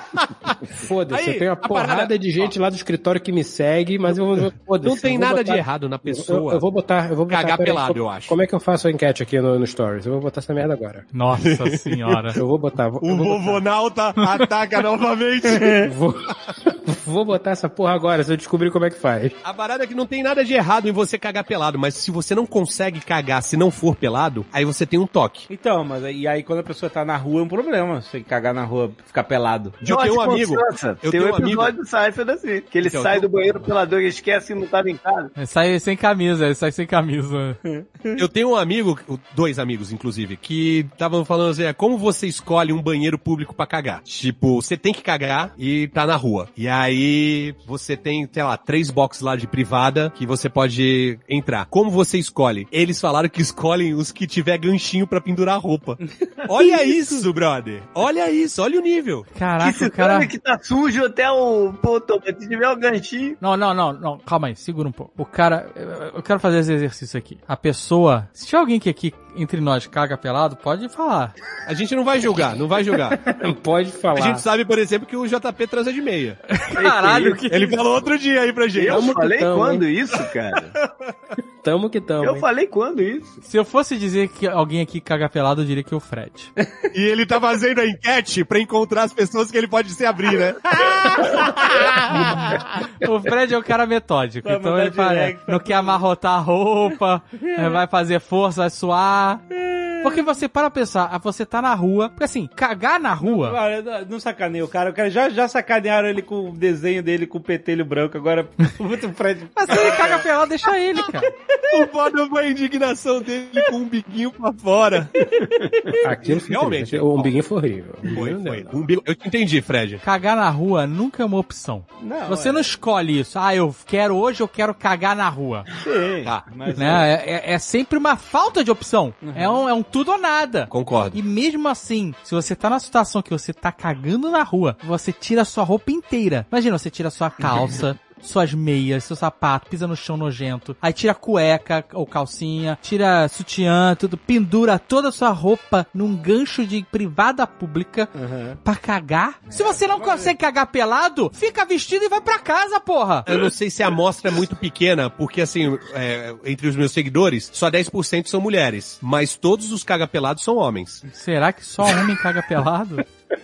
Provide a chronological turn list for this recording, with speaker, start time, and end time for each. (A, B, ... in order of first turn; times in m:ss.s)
0:00.7-0:11.1 A
0:01.1-0:02.1 B
0:04.8-0:06.6 B
0:07.3-0:08.4 B
0:11.1-0:12.4 C
0:11.4-0:12.1 B
0:12.4-0:13.6 A
0:13.0-0:15.8 B
0:15.5-0:15.9 D
0:15.8-0:19.4 A
0:19.4-0:25.5 B
0:25.5-0:29.8 D
0:29.8-0:31.7 B
0:29.8-0:35.3 E
0:32.8-0:33.5 B
0:35.4-0:37.6 C
0:37.6-0:38.2 D
0:38.2-0:59.3 B
0:56.6-0:57.2 C
0:59.4-1:00.3 C
0:59.6-1:03.4 E
1:03.4-1:11.3 C
1:11.7-1:13.2 B
1:13.2-1:14.4 A
1:14.2-1:16.4 B
1:16.5-1:17.8 C
1:16.7-1:17.4 E
1:17.5-1:19.1 B
1:18.8-1:20.8 E
1:18.8-1:19.9 A
1:21.6-1:22.5 A
1:22.2-1:23.4 E
1:23.4-1:26.5 C
1:26.9-1:30.6 B
1:30.7-1:32.8 D
1:32.2-1:39.4 C
1:34.4-1:36.0 D
1:37.4-1:37.8 D
1:39.5-1:40.3 D
1:40.0-1:43.6 C
1:43.2-1:50.2 D
1:49.6-1:51.3 C
1:51.7-1:55.1 B
1:55.4-1:56.0 D
1:56.0-1:58.8 A
1:56.4-1:57.3 B
1:58.0-2:00.0 B
2:00.0-2:05.7 C
2:02.0-2:02.7 D
2:05.8-2:07.1 D
2:06.8-2:28.1 C
2:09.2-2:09.6 D
2:10.7-2:11.2 B
2:28.2-2:28.6 D
2:28.6-2:33.3 C
2:29.5-2:30.3 D
2:33.3-2:41.0 B
2:41.1-2:43.0 C